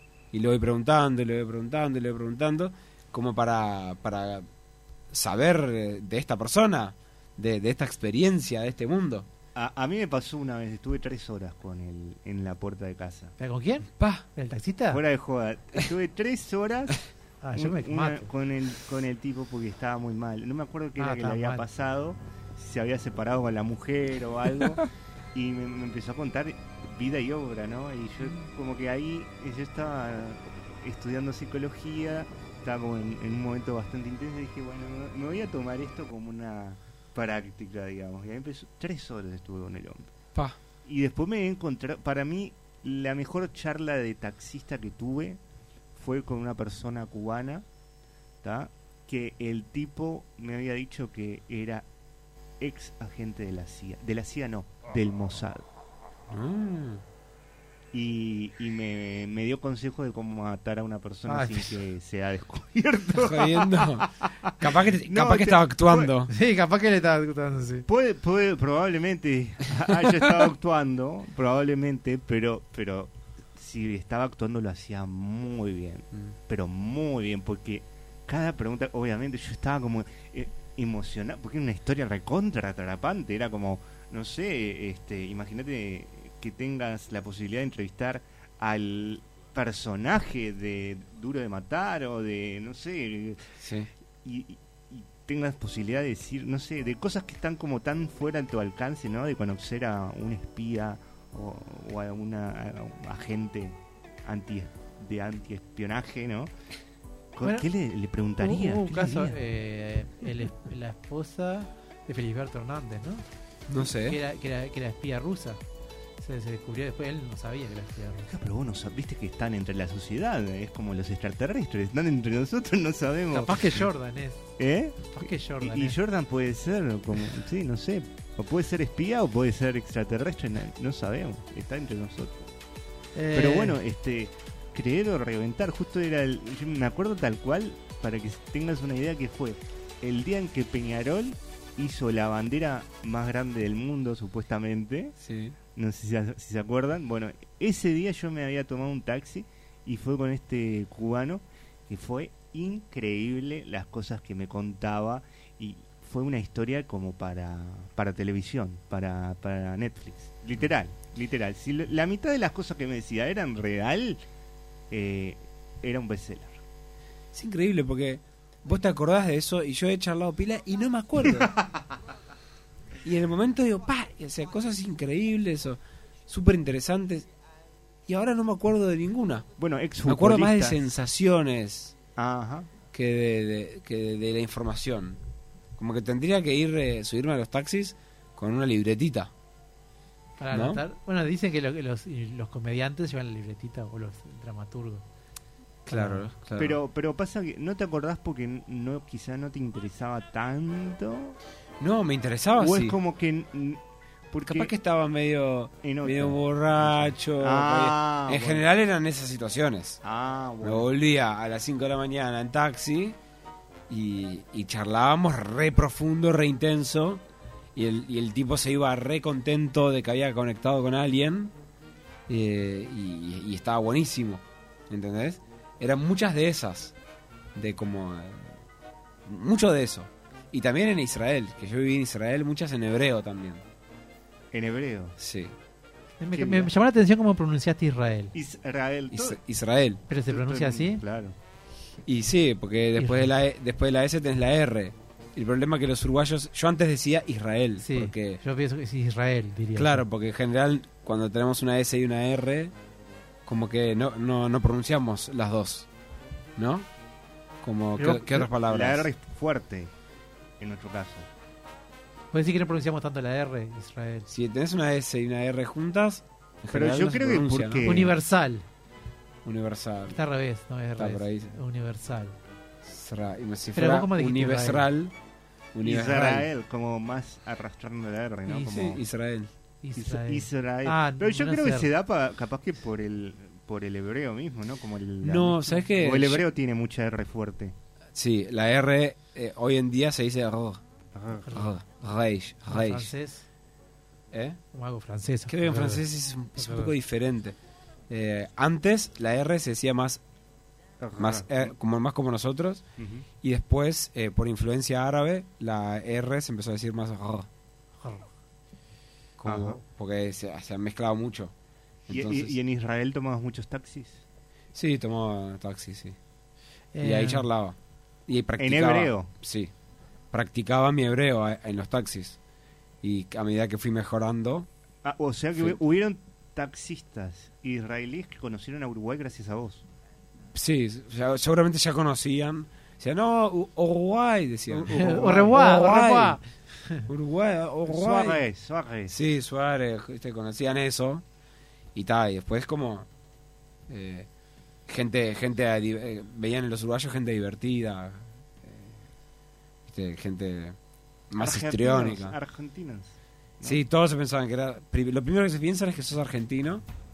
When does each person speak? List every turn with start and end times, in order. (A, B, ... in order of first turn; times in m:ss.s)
0:00.3-0:04.5 A
0:05.1-0:09.3 A
0:09.6-0:13.3 B
0:13.4-0:15.0 C
0:14.0-0:14.2 A
0:14.9-0:17.0 B
0:17.4-0:18.3 C
0:17.6-0:24.8 B
0:21.0-0:21.6 C
0:25.3-0:40.0 B
0:40.9-0:45.4 B
0:46.0-0:47.6 B
0:48.4-0:51.8 B
0:52.6-0:55.6 B
0:56.3-0:57.0 A
0:57.9-1:06.1 B
1:01.3-1:01.7 C
1:03.2-1:06.3 A
1:06.3-1:07.9 C
1:07.9-1:33.4 B
1:33.6-1:33.9 A
1:34.2-1:46.5 B
1:47.4-1:49.4 B
1:48.4-1:53.2 C
1:53.7-1:54.2 A
1:54.0-1:55.6 C
1:56.2-1:58.3 C
1:58.3-2:03.9 B
2:03.3-2:04.5 C
2:04.6-2:12.4 B
2:05.1-2:06.0 C
2:13.2-2:13.8 C
2:13.3-2:25.2 B
2:25.2-2:25.6 A
2:25.8-2:44.2 B
2:44.9-2:46.6 B
2:47.3-2:51.6 A
2:51.3-2:51.8 B
2:53.0-2:57.3 A
2:58.1-2:59.5 A
2:59.6-3:00.8 B
3:00.1-3:02.0 A
3:02.2-3:02.7 B
3:02.9-3:05.2 A
3:05.8-3:09.3 A
3:10.4-3:15.0 C
3:10.5-3:10.8 A
3:15.9-3:16.3 C
3:15.9-3:16.8 A
3:16.6-3:21.4 B
3:21.8-3:23.0 A
3:22.6-3:24.7 B
3:24.5-3:30.0 A
3:25.8-3:28.6 B
3:30.0-3:30.9 B
3:30.6-3:33.2 A
3:33.9-3:37.2 A
3:37.8-3:41.5 A
3:42.3-3:46.9 A
3:47.6-3:48.6 A
3:49.3-3:53.6 A
3:54.5-3:55.2 B
3:55.2-3:55.5 A
3:56.2-3:58.3 C
3:56.3-3:56.7 B
3:58.3-3:59.4 B
3:59.1-4:00.0 A
4:00.1-4:01.0 C
4:00.3-4:01.4 B
4:02.1-4:08.4 A
4:03.0-4:03.3 C
4:07.8-4:10.0 C
4:09.8-4:12.7 A
4:13.5-4:15.9 A
4:16.6-4:16.9 A
4:17.6-4:19.1 A
4:18.0-4:18.5 C
4:18.5-4:19.9 B
4:20.6-4:21.3 B
4:22.3-4:24.3 C
4:24.3-4:28.1 A
4:26.7-4:28.1 B
4:27.8-4:28.6 C
4:29.4-4:30.2 A
4:30.1-4:32.4 C
4:31.0-4:31.6 A
4:32.8-4:35.1 A
4:33.8-4:34.9 C
4:35.8-4:36.5 A
4:35.8-4:39.0 B
4:38.5-4:38.7 C
4:38.7-4:39.5 A
4:39.8-4:41.9 C
4:40.0-4:47.8 B
4:45.2-4:46.5 A
4:48.2-4:50.8 A
4:51.2-4:51.6 B
4:51.5-4:53.1 A
4:52.7-4:53.5 C
4:54.3-4:54.6 A
4:54.7-4:56.0 C
4:55.5-4:57.6 A
4:56.6-4:56.9 C
4:58.1-5:00.2 A
5:01.0-5:01.7 B
5:01.2-5:02.8 A
5:03.0-5:03.2 B
5:03.4-5:07.5 A
5:08.0-5:08.3 C
5:09.4-5:11.5 A
5:09.5-5:09.8 B
5:12.1-5:12.6 A
5:12.1-5:14.2 B
5:14.8-5:16.2 A
5:17.0-5:17.5 C
5:17.0-5:17.8 A
5:18.3-5:19.7 A
5:18.6-5:19.3 B
5:20.3-5:22.4 A
5:23.0-5:24.7 A
5:25.0-5:29.8 B
5:30.5-5:36.4 A
5:34.7-5:37.0 C
5:37.1-5:38.4 A
5:37.9-5:39.2 B
5:39.1-5:41.2 A
5:42.0-5:43.1 A
5:43.9-5:44.3 A
5:44.9-5:49.0 A
5:49.9-5:50.8 A
5:51.3-5:52.4 A
5:51.4-5:53.8 B
5:53.6-5:56.8 A